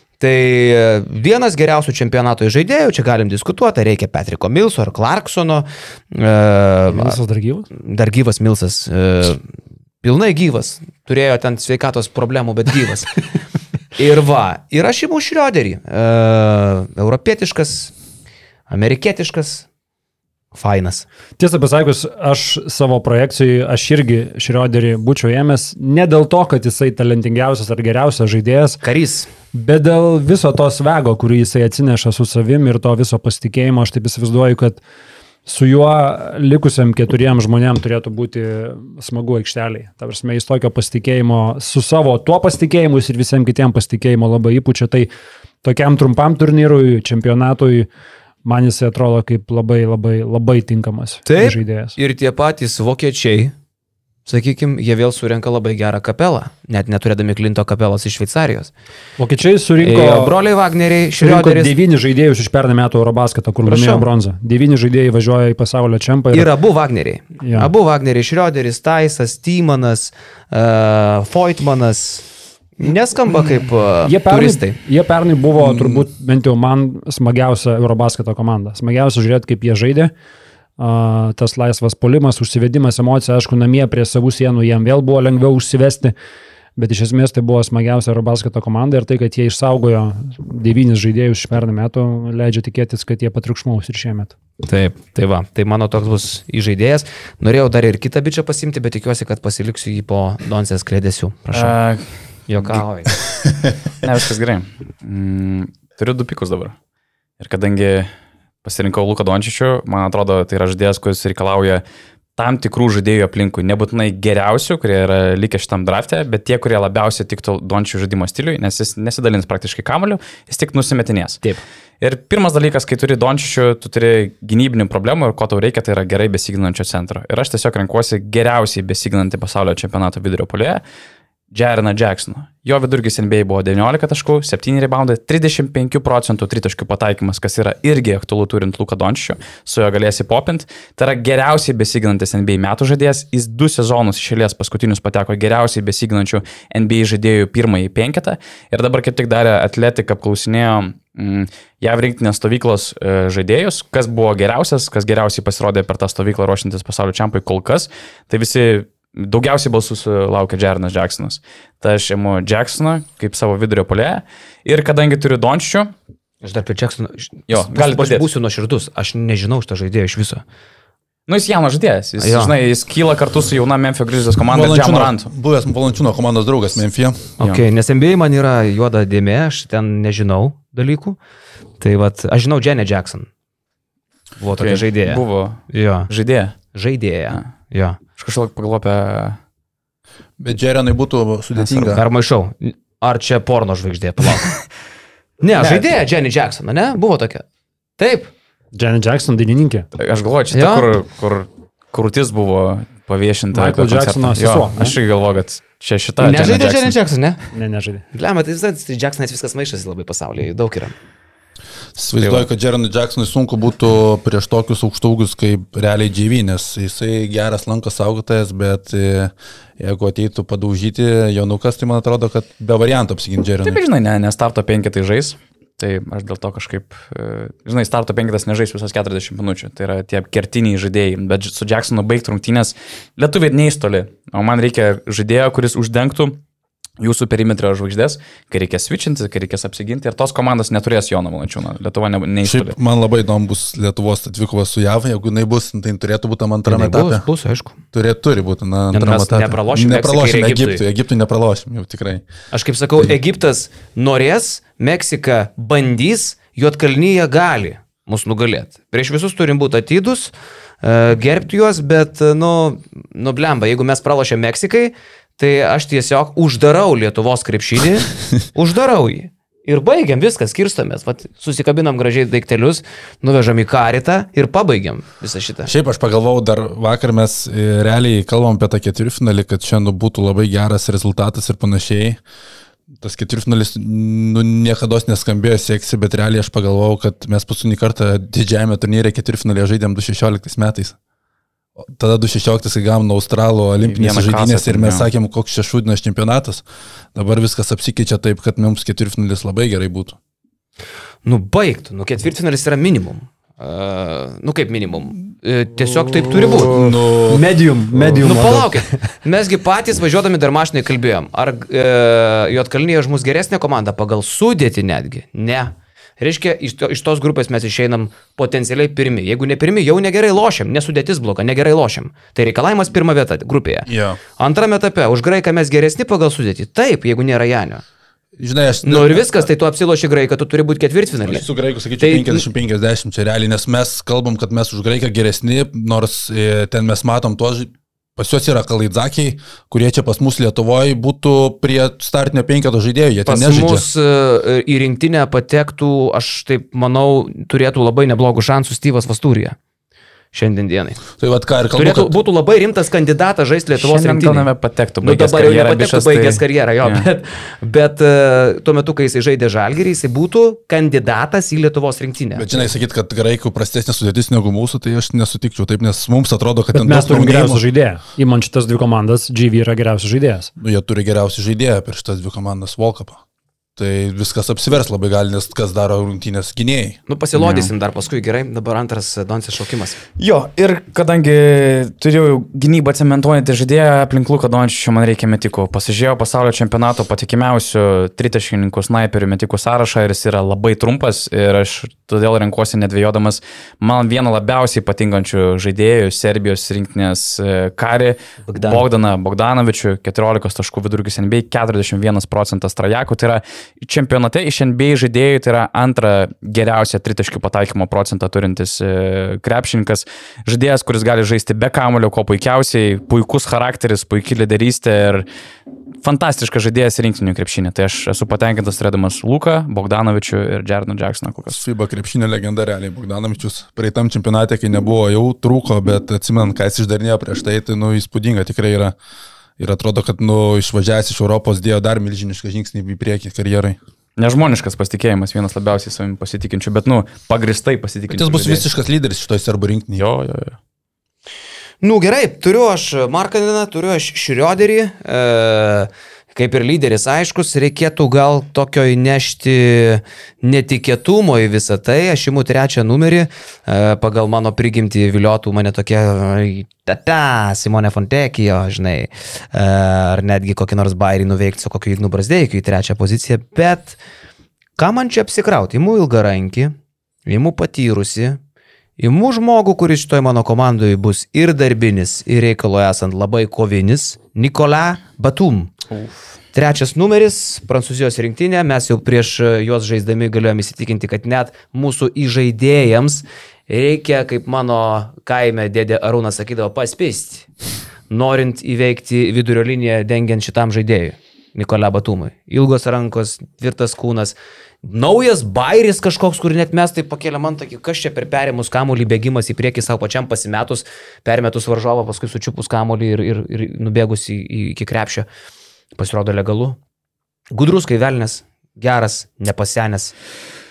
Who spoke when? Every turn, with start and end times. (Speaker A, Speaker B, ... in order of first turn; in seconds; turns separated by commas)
Speaker A: 0.2-7.2, Speaker B: 6.9-7.7, Speaker A: 7.7-9.4, Speaker A: 10.0-13.2, Speaker A: 13.9-17.9, Speaker A: 18.7-19.7, Speaker A: 20.6-21.1, Speaker B: 21.4-28.8, Speaker A: 28.8-29.3, Speaker B: 29.5-34.8, Speaker B: 35.5-45.1, Speaker B: 45.6-47.9, Speaker B: 48.4-52.0, Speaker A: 51.3-53.5, Speaker A: 54.3-58.7, Speaker B: 59.2-60.4, Speaker A: 59.8-61.8, Speaker B: 61.2-66.5, Speaker A: 63.6-64.1, Speaker A: 66.3-72.3, Speaker B: 67.4-67.7, Speaker A: 72.8-74.8, Speaker B: 74.0-80.1, Speaker B: 80.8-86.1, Speaker B: 86.8-94.3, Speaker A: 94.6-101.7, Speaker C: 101.5-102.0, Speaker A: 102.5-103.2, Speaker C: 104.0-106.8, Speaker C: 107.4-108.1, Speaker C: 108.6-111.8, Speaker C: 112.4-121.4, Speaker C: 122.0-130.8, Speaker C: 131.5-165.9, Speaker A: 166.4-170.4, Speaker C: 167.5-168.3, Speaker C: 171.3-175.3, Speaker A: 172.2-172.5, Speaker D: 174.5-177.3, Speaker A: 177.4-181.2, Speaker A: 181.8-183.3, Speaker A: 184.4-186.1, Speaker C: 184.6-186.6, Speaker A: 186.7-188.0, Speaker C: 188.2-189.4, Speaker D: 190.4-192.0, Speaker A: 191.8-194.6, Speaker A: 195.4-197.4, Speaker C: 195.6-195.8, Speaker A: 198.0-198.3, Speaker B: 198.7-199.9, Speaker C: 200.0-207.0, Speaker A: 200.5-200.9, Speaker B: 203.5-205.0, Speaker A: 206.2-207.4, Speaker B: 207.5-208.0, Speaker A: 208.1-210.9, Speaker D: 212.0-223.8, Speaker C: 212.2-212.5, Speaker C: 223.6-236.4, Speaker C: 237.0-242.8, Speaker D: 242.4-247.2, Speaker A: 246.7-247.8, Speaker D: 247.9-252.2, Speaker A: 248.9-250.8, Speaker A: 252.5-275.7, Speaker D: 275.7-282.2, Speaker D: 283.0-291.0, Speaker D: 291.8-296.6, Speaker C: 293.8-295.1, Speaker D: 297.1-300.2, Speaker A: 301.2-306.8, Speaker D: 306.3-308.0, Speaker B: 306.8-309.0, Speaker A: 308.1-327.8, Speaker D: 323.9-324.2, Speaker D: 328.4-329.5, Speaker A: 328.8-331.4, Speaker D: 331.2-343.9, Speaker A: 332.0-332.4, Speaker A: 343.3-349.6, Speaker A: 350.3-351.0, Speaker D: 351.2-352.1, Speaker A: 351.8-354.5, Speaker C: 353.8-357.1, Speaker A: 355.0-362.7, Speaker D: 362.4-367.6, Speaker B: 366.7-370.5, Speaker D: 370.6-373.2, Speaker D: 373.8-377.0, Speaker A: 377.1-380.0, Speaker C: 377.4-377.7, Speaker C: 380.2-415.3, Speaker A: 398.5-398.9, Speaker C: 416.0-421.6, Speaker D: 421.5-428.9, Speaker D: 429.6-433.8, Speaker C: 434.2-438.7, Speaker D: 438.1-440.0, Speaker C: 440.0-440.6, Speaker A: 441.8-464.0, Speaker A: 464.8-466.8, Speaker A: 467.3-468.4, Speaker A: 469.0-475.7, Speaker C: 475.9-476.4, Speaker A: 476.5-487.5, Speaker A: 488.1-505.3, Speaker A: 505.9-506.8, Speaker A: 507.5-510.1